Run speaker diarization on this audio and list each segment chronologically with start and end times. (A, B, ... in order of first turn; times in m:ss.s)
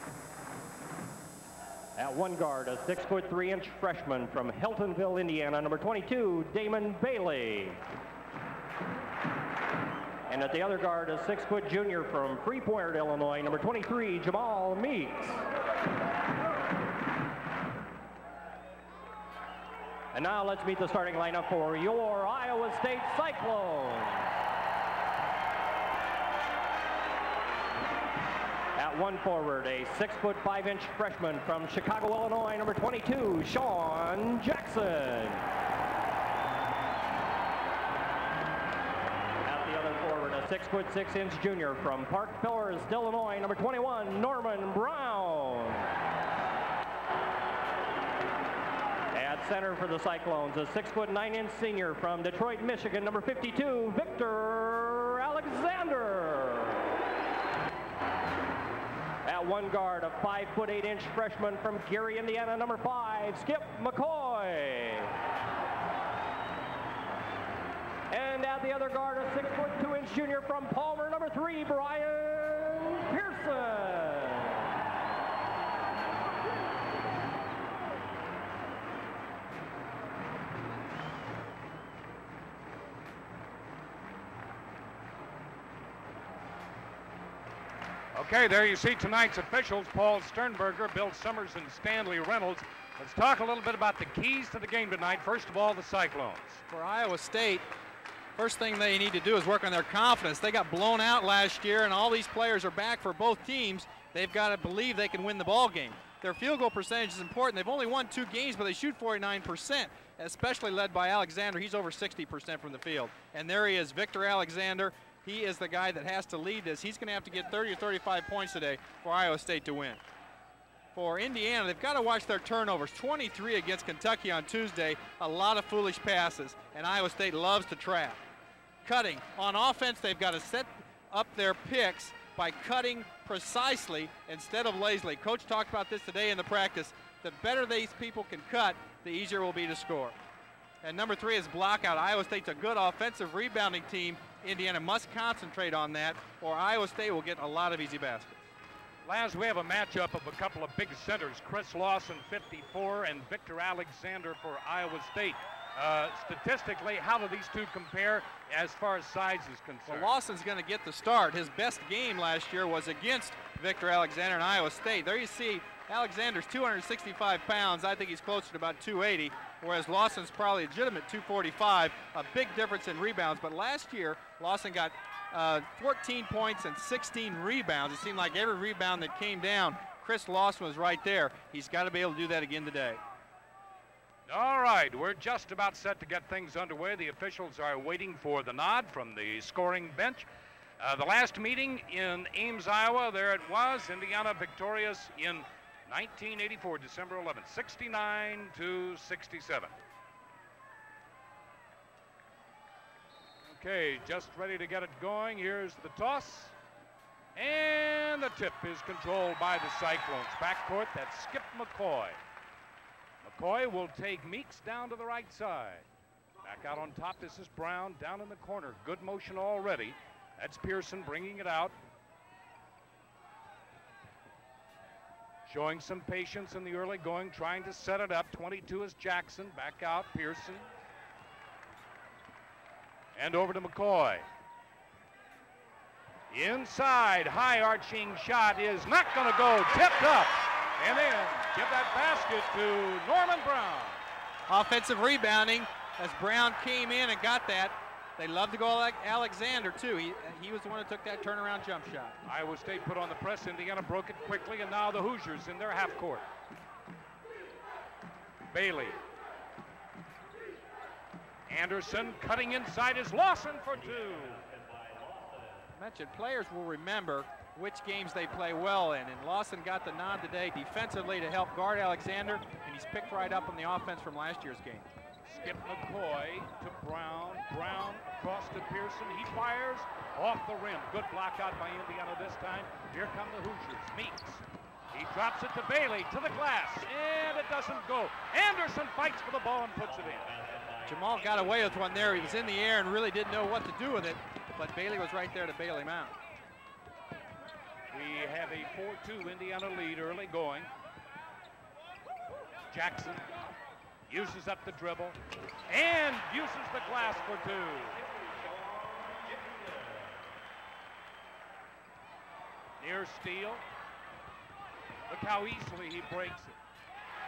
0:02.0-0:07.8 A
0:10.3-0:15.4 A
0:20.1-0:24.3 A
0:28.8-0:35.5 A
0:39.4-0:46.0 A
0:49.1-0:57.0 A
0:59.2-1:05.2 A
1:08.1-1:14.7 A
1:28.1-1:36.6 B
1:36.7-1:37.6 C
1:38.4-2:00.0 C
2:00.9-2:08.2 C
2:08.8-2:20.2 C
2:20.8-2:28.4 C
2:29.0-2:40.1 B
2:39.9-3:03.0 C
3:04.3-3:10.3 B
3:10.8-3:19.7 B
3:23.4-3:26.5 B
3:27.3-3:32.2 B
3:33.2-3:35.8 B
3:36.4-3:41.7 B
3:45.5-3:50.7 B
3:53.1-3:54.2 B
3:56.3-4:04.0 B
4:04.5-4:12.2 C
4:12.2-4:16.2 B
4:18.5-4:19.0 B
4:21.5-4:24.4 B
4:25.7-4:34.9 C
4:35.2-4:50.4 B
4:50.8-4:56.2 C
4:57.9-5:00.7 B
5:02.7-5:03.2 B
5:04.1-5:08.0 B
5:12.8-5:13.6 B
5:15.1-5:16.6 B